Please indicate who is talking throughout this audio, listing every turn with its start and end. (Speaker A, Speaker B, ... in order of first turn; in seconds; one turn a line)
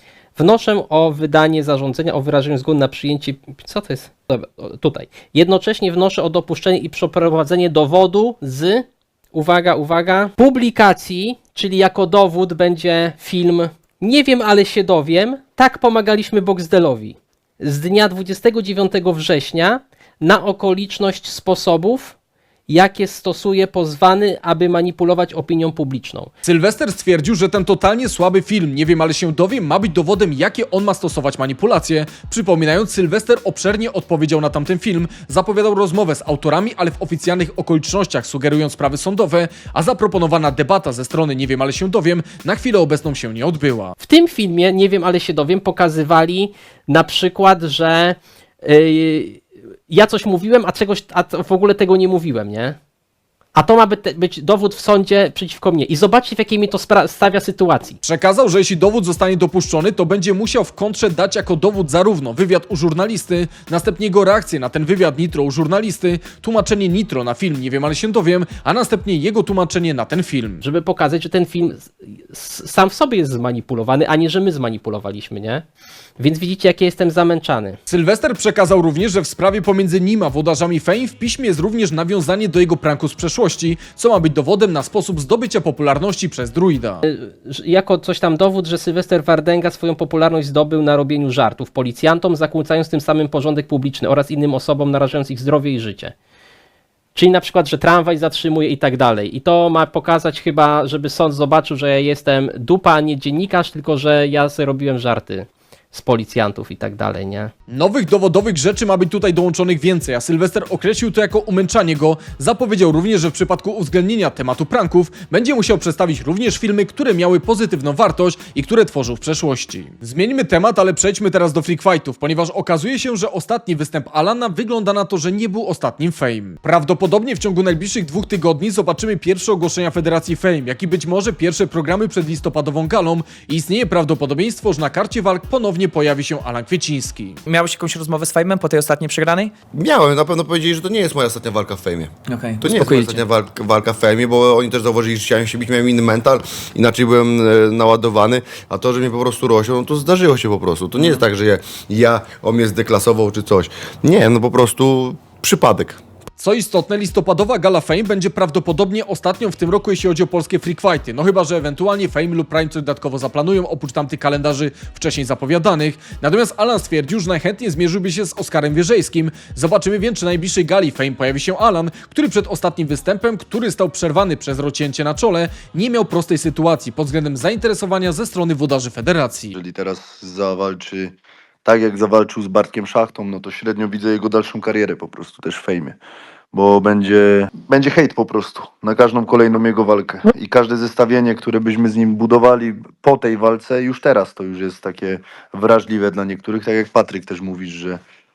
Speaker A: 0.3-22.1
Speaker A: 22.7-26.3
Speaker B: 26.4-44.0
Speaker A: 44.0-52.8
Speaker A: 53.5-58.0
Speaker B: 58.0-70.6
Speaker A: 70.6-75.6
Speaker A: 76.2-77.8
Speaker B: 77.9-87.0
Speaker A: 87.0-96.1
Speaker A: 97.2-107.5
Speaker B: 107.7-137.4
Speaker C: 137.5-139.5
Speaker D: 139.7-156.0
Speaker C: 142.3-143.2
Speaker B: 156.4-179.6
Speaker E: 179.5-186.0
Speaker E: 186.5-198.0